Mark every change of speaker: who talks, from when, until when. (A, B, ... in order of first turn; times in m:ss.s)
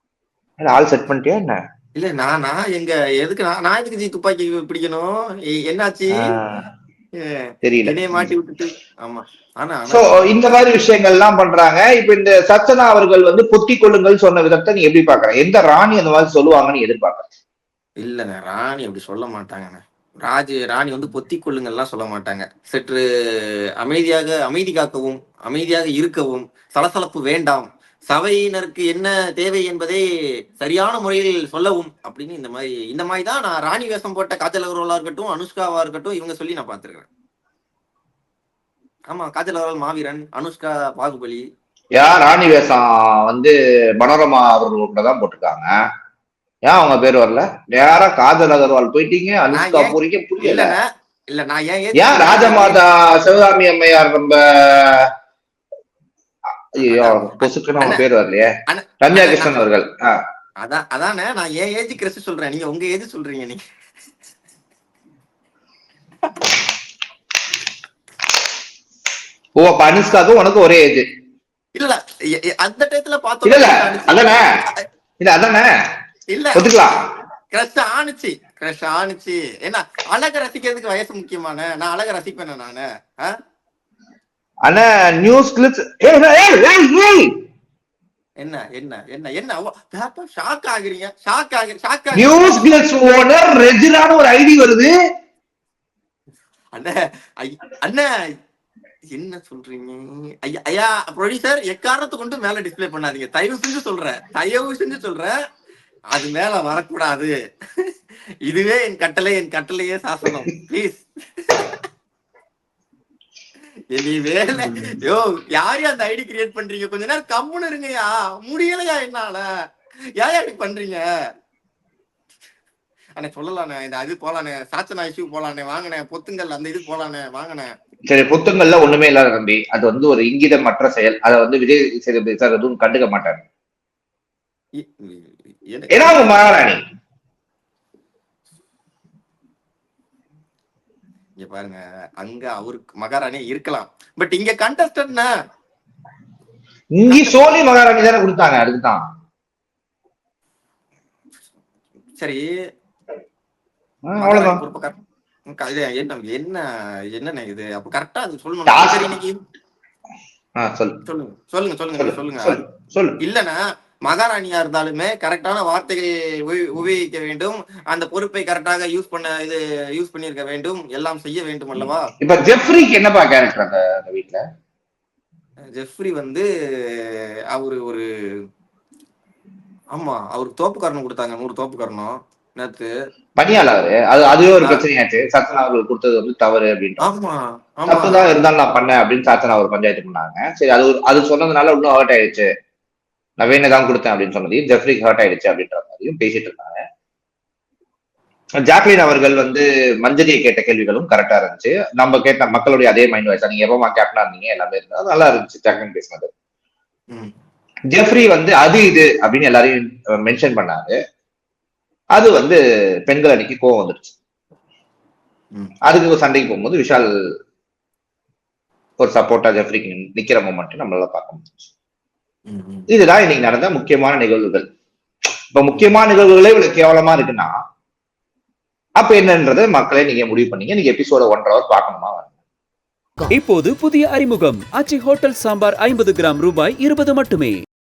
0:00.6-0:01.6 A
0:02.0-0:06.3 B
0:06.1-0:06.6 A
0:07.2-0:10.4 B
0:07.6-0:08.3 A
0:09.9-0:17.3 A
0:18.0-0:30.0 B
0:30.6-0:37.1 B
0:39.1-0:41.4 B
0:41.9-0:45.7 A
0:46.6-0:50.7 A
0:49.5-0:52.8 B
0:52.0-0:55.1 A
0:56.8-0:58.5 A
0:56.8-0:58.0 B
0:58.7-0:59.6 B
0:59.0-1:00.2 A
1:00.6-1:03.6 B
1:09.6-1:11.1 A
1:11.7-1:14.8 B
1:13.4-1:14.4 A
1:15.2-1:15.7 A
1:16.3-1:16.8 B
1:16.6-1:17.0 A
1:17.5-1:23.4 B
1:24.6-1:27.3 A
1:28.4-1:32.7 B
1:32.1-1:34.9 A
1:36.7-1:38.1 B
1:39.1-1:45.3 B
1:46.1-1:47.9 B
1:48.4-1:51.8 B
1:53.9-1:59.4 B
2:00.2-2:01.0 B
2:03.2-2:07.7 B
2:08.1-2:13.4 A
2:14.8-2:16.6 B
2:15.9-2:16.8 A
2:21.4-2:25.3 B
2:26.9-2:29.0 A
2:27.1-2:27.4 B
2:32.2-2:32.4 B
2:34.0-2:34.6 A
2:34.2-2:35.0 B
2:35.5-2:39.4 B
2:38.7-2:39.1 A
2:40.6-2:41.0 A
2:41.0-2:42.6 B
2:42.0-2:43.2 A
2:43.2-2:52.1 B
2:51.8-2:54.4 A
2:55.7-2:58.4 B
2:59.9-3:02.9 B
3:03.4-3:07.0 A
3:07.0-3:08.4 B
3:07.9-3:12.5 A
3:13.4-3:16.8 A
3:18.6-3:26.3 A
3:27.9-3:31.0 A
3:32.2-3:34.1 A
3:35.8-3:37.1 A
3:39.0-3:41.5 A
3:42.5-3:42.9 B
3:42.9-3:44.6 A
3:45.5-3:47.5 A
3:49.0-3:52.3 A
3:53.3-3:57.6 C